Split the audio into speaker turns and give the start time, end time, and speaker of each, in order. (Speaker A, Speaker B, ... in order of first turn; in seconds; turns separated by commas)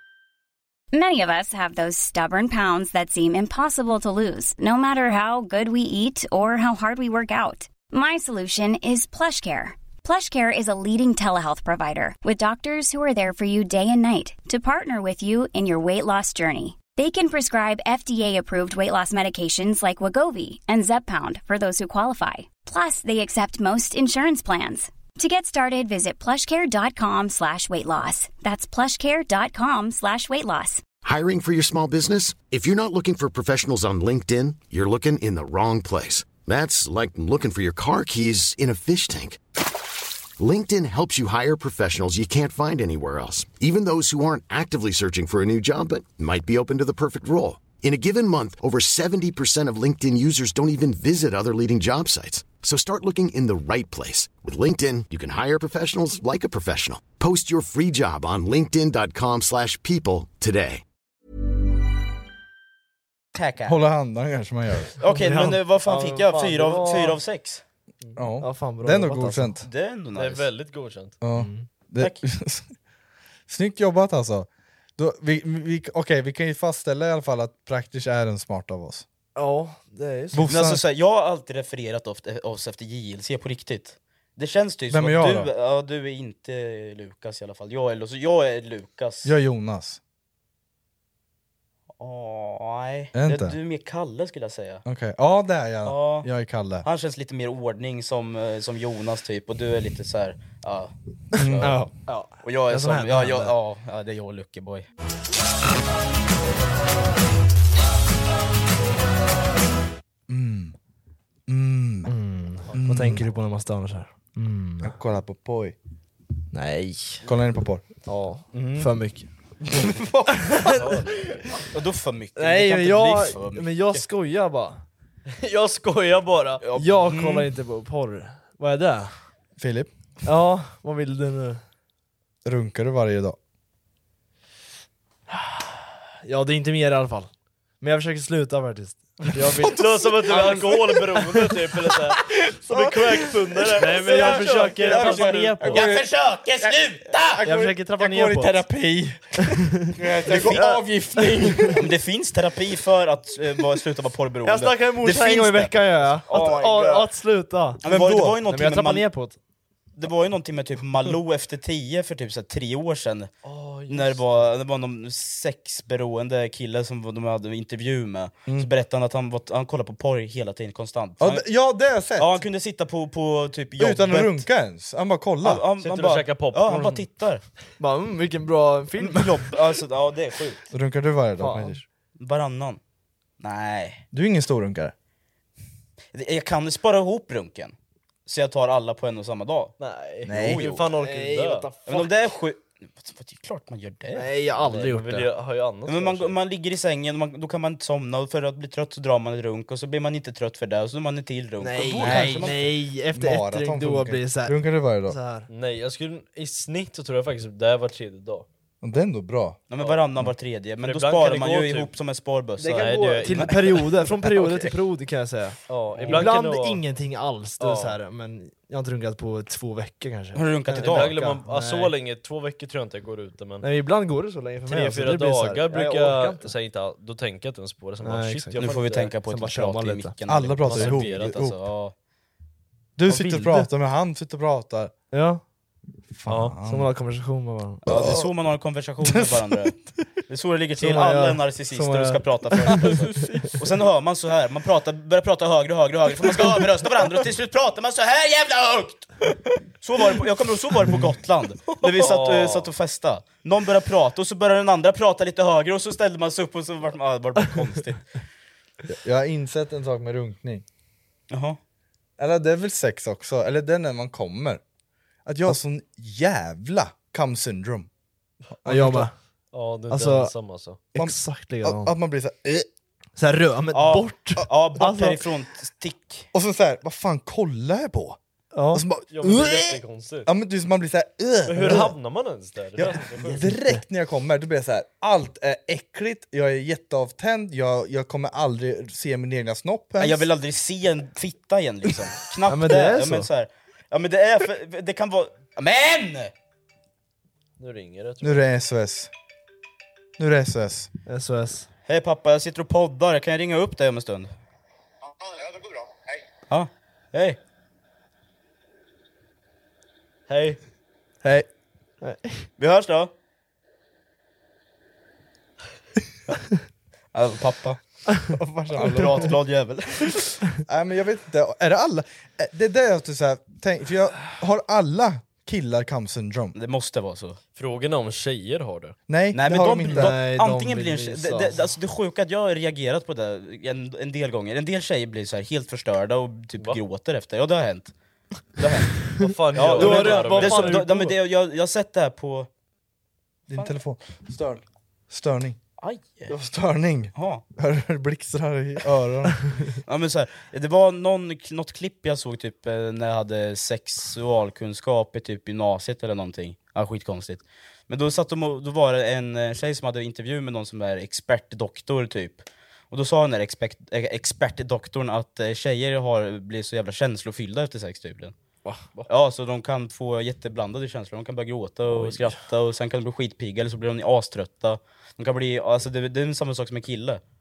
Speaker A: 0.9-30.8, Speaker B: 31.0-39.4, Speaker B: 40.4-60.8, Speaker C: 63.4-63.8, Speaker D: 63.6-65.0, Speaker C: 65.0-67.6, Speaker E: 65.1-67.2, Speaker D: 68.2-69.7, Speaker E: 68.4-69.6, Speaker C: 69.6-70.5, Speaker F: 70.2-71.2, Speaker D: 71.2-72.7, Speaker E: 71.3-71.7, Speaker D: 73.5-79.1, Speaker E: 79.3-80.5, Speaker D: 80.3-80.8, Speaker C: 80.5-89.3, Speaker D: 84.9-85.5, Speaker D: 89.2-90.0, Speaker C: 92.0-94.8, Speaker D: 93.2-93.6, Speaker D: 94.9-96.9, Speaker C: 95.8-96.3, Speaker C: 96.8-101.8, Speaker D: 101.3-101.8, Speaker E: 101.6-103.5, Speaker C: 102.4-104.9, Speaker D: 110.3-110.8, Speaker D: 111.5-112.1, Speaker E: 112.1-115.0, Speaker F: 112.7-113.2, Speaker D: 112.7-113.2, Speaker D: 114.8-115.8, Speaker E: 116.5-117.2, Speaker D: 117.2-117.8, Speaker E: 118.0-119.3, Speaker F: 118.5-119.0, Speaker D: 119.7-120.9, Speaker F: 120.7-121.5, Speaker C: 121.7-124.1, Speaker E: 122.4-124.8, Speaker F: 125.4-126.6, Speaker C: 126.6-127.5, Speaker E: 126.8-129.1, Speaker D: 129.6-129.9, Speaker E: 130.2-131.6, Speaker D: 132.4-133.4, Speaker E: 135.3-141.9, Speaker D: 139.6-140.9, Speaker F: 139.7-145.8, Speaker E: 142.7-145.9, Speaker D: 143.8-146.1, Speaker C: 143.9-147.4, Speaker D: 146.6-151.9, Speaker E: 147.4-148.7, Speaker E: 149.8-151.8, Speaker C: 150.3-150.8, Speaker C: 151.7-157.1, Speaker E: 154.4-157.8, Speaker C: 157.8-159.1, Speaker D: 157.8-158.4, Speaker E: 158.4-159.4, Speaker C: 160.0-163.3, Speaker F: 163.4-164.2, Speaker C: 163.9-171.5, Speaker D: 171.2-172.4, Speaker C: 172.2-174.5, Speaker D: 173.8-175.6, Speaker C: 175.4-177.4, Speaker F: 175.8-177.1, Speaker E: 177.8-179.5, Speaker C: 179.0-180.6, Speaker D: 180.7-181.8, Speaker E: 181.4-181.8, Speaker C: 182.2-182.8, Speaker C: 183.4-184.0, Speaker D: 184.1-184.9, Speaker C: 186.1-187.8, Speaker C: 188.3-189.8, Speaker F: 189.8-191.7, Speaker D: 190.2-190.7, Speaker C: 190.3-190.9, Speaker E: 190.9-192.1, Speaker C: 191.9-194.3, Speaker E: 194.1-195.3, Speaker F: 194.6-196.3, Speaker C: 195.9-202.7, Speaker E: 201.6-205.5, Speaker D: 201.9-205.2, Speaker F: 205.5-208.5, Speaker D: 208.8-209.6, Speaker C: 209.7-213.9, Speaker F: 210.8-211.9, Speaker E: 212.6-221.9, Speaker F: 212.6-213.9, Speaker F: 215.7-216.8, Speaker D: 216.0-216.3, Speaker F: 217.6-218.0, Speaker C: 220.3-221.2, Speaker F: 220.7-223.7, Speaker E: 223.6-226.5, Speaker F: 224.7-229.2, Speaker E: 228.0-230.2, Speaker C: 228.6-231.9, Speaker D: 230.3-231.6, Speaker F: 230.6-231.4, Speaker D: 233.0-234.9, Speaker C: 233.1-233.4, Speaker E: 235.1-235.4, Speaker D: 236.1-236.9, Speaker F: 236.3-236.6, Speaker E: 236.6-237.8, Speaker D: 237.9-238.3, Speaker C: 237.9-239.8, Speaker D: 239.0-239.5, Speaker C: 240.3-249.1, Speaker E: 240.8-243.5, Speaker C: 249.8-258.1, Speaker F: 252.0-252.7, Speaker D: 258.9-260.6, Speaker C: 261.3-261.6, Speaker D: 262.2-264.6, Speaker D: 265.2-267.9, Speaker D: 268.6-269.1, Speaker E: 268.7-269.1, Speaker F: 269.5-270.9, Speaker E: 269.9-270.3, Speaker E: 270.9-271.9, Speaker D: 270.9-272.7, Speaker E: 273.2-275.3, Speaker C: 273.7-276.3, Speaker D: 276.3-278.2, Speaker E: 278.5-278.9, Speaker D: 278.7-282.0, Speaker F: 279.1-280.3, Speaker F: 281.5-283.6, Speaker D: 282.8-290.3, Speaker E: 283.2-283.8, Speaker C: 290.0-296.3, Speaker E: 292.5-293.3, Speaker F: 297.6-298.4, Speaker D: 298.2-299.1, Speaker D: 300.2-300.9, Speaker E: 301.1-301.7, Speaker C: 301.9-304.3, Speaker C: 306.5-307.4, Speaker F: 310.3-310.6, Speaker E: 312.0-312.5, Speaker C: 312.6-313.1, Speaker C: 317.1-317.8, Speaker D: 318.3-319.3, Speaker C: 318.8-320.4, Speaker D: 320.6-326.6, Speaker C: 326.5-327.4, Speaker F: 327.6-329.0, Speaker D: 329.1-330.2, Speaker C: 329.3-337.9, Speaker E: 329.9-331.6, Speaker C: 338.6-342.5, Speaker F: 339.2-341.1, Speaker E: 339.6-341.1, Speaker D: 343.5-345.6, Speaker C: 345.8-346.3, Speaker D: 346.3-349.4, Speaker C: 347.2-347.4, Speaker C: 349.9-368.4, Speaker C: 369.1-377.2